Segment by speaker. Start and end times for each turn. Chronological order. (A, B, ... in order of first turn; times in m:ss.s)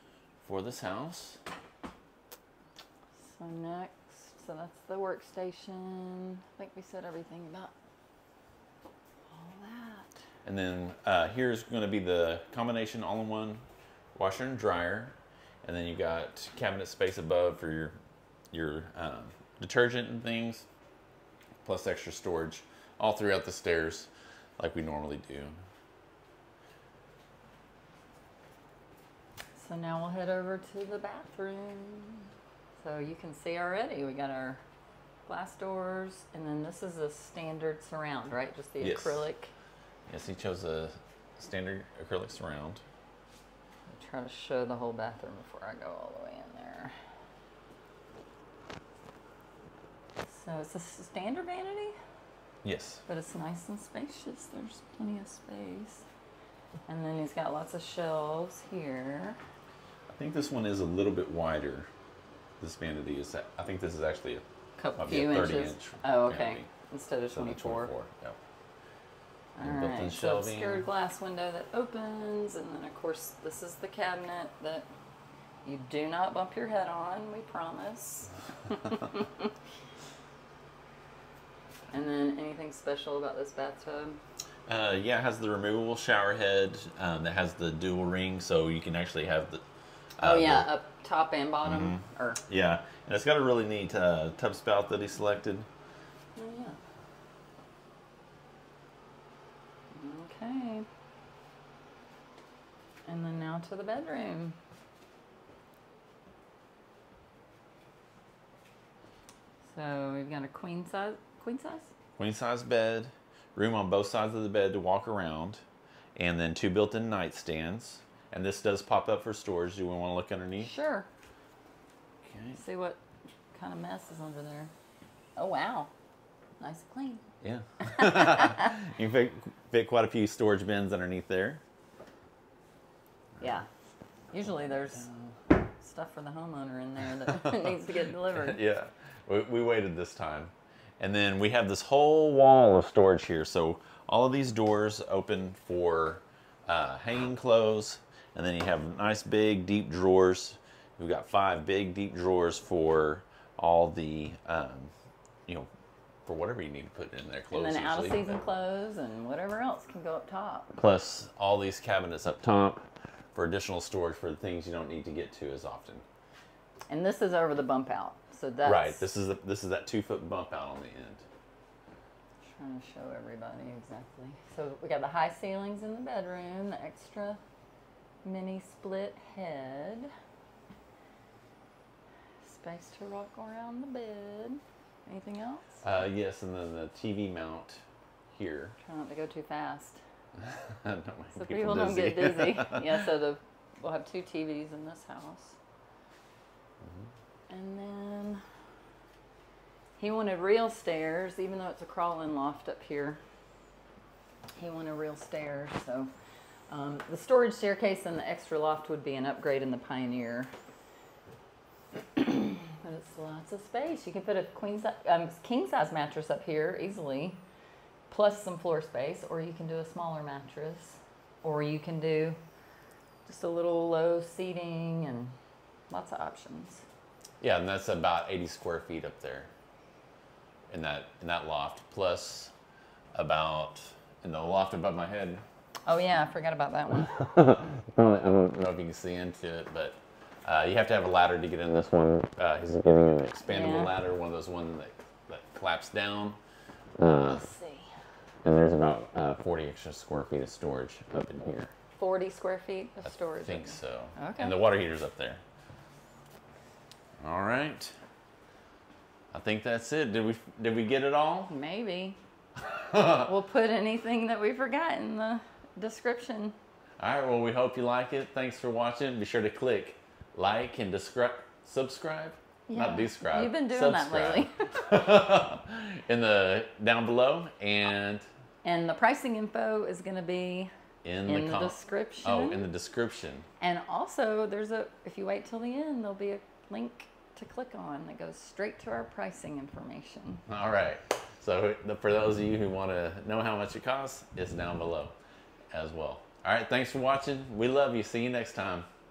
0:00.4-0:01.4 A
0:03.2-0:07.7 B
0:09.3-0:10.2 B
0:10.4-0:18.0 A
0:18.5-0:20.7 A
0:21.6-0:25.5 A
0:29.5-0:34.6 B
0:35.2-0:39.5 B
0:38.8-0:39.3 A
0:40.1-0:42.8 A
0:43.9-0:46.9 B
0:50.3-0:51.9 B
0:52.6-0:53.0 A
0:53.1-0:56.0 B
0:56.9-0:59.4 B
1:00.1-1:01.9 A
1:02.6-1:04.4 A
1:04.8-1:07.9 B
1:05.0-1:06.7 A
1:07.3-1:08.4 A
1:09.6-1:14.9 B
1:09.6-1:10.9 A
1:15.6-1:19.5 B
1:21.9-1:24.2 B
1:24.7-1:29.6 A
1:30.2-1:30.7 A
1:30.2-1:32.4 B
1:31.6-1:35.7 A
1:36.4-1:36.8 B
1:39.9-1:40.8 B
1:43.0-1:44.6 B
1:49.7-1:51.9 B
1:52.2-1:55.6 A
1:56.2-2:00.7 A
2:00.6-2:01.1 B
2:02.2-2:02.6 A
2:02.5-2:03.0 B
2:03.5-2:04.7 B
2:05.4-2:05.9 B
2:06.6-2:07.2 B
2:07.4-2:11.6 A
2:07.9-2:08.7 B
2:13.4-2:13.7 B
2:14.3-2:15.1 B
2:15.0-2:15.3 A
2:15.8-2:18.6 B
2:18.3-2:34.9 A
2:36.2-2:38.4 A
2:37.5-2:40.8 B
2:40.8-2:46.0 A
2:46.9-2:49.1 B
2:48.6-2:51.2 A
2:52.5-2:57.4 B
2:58.2-3:00.1 B
3:02.4-3:05.8 B
3:05.8-3:08.8 A
3:08.8-3:10.0 B
3:10.4-3:12.8 A
3:11.3-3:15.6 B
3:16.8-3:17.1 A
3:17.5-3:18.4 B
3:20.0-3:23.2 B
3:24.6-3:26.1 B
3:26.7-3:30.5 B
3:32.1-3:37.4 B
3:38.1-3:42.4 B
3:43.3-3:45.3 B
3:45.9-3:46.8 B
3:47.4-3:49.5 A
3:50.7-3:52.5 A
3:53.1-3:55.4 A
3:55.8-3:57.3 B
3:57.2-4:06.4 A
4:03.5-4:03.9 B
4:07.0-4:07.5 A
4:07.2-4:08.0 B
4:08.4-4:11.7 A
4:12.0-4:14.6 B
4:13.1-4:15.4 A
4:17.2-4:18.0 A
4:19.3-4:21.5 A
4:21.5-4:22.2 B
4:22.6-4:23.3 A
4:23.2-4:26.6 B
4:27.0-4:38.2 A
4:32.7-4:34.9 B
4:38.6-4:40.7 B
4:41.0-4:43.5 A
4:41.2-4:42.7 B
4:43.6-4:50.4 B
4:50.5-4:55.2 A
4:55.7-4:58.8 A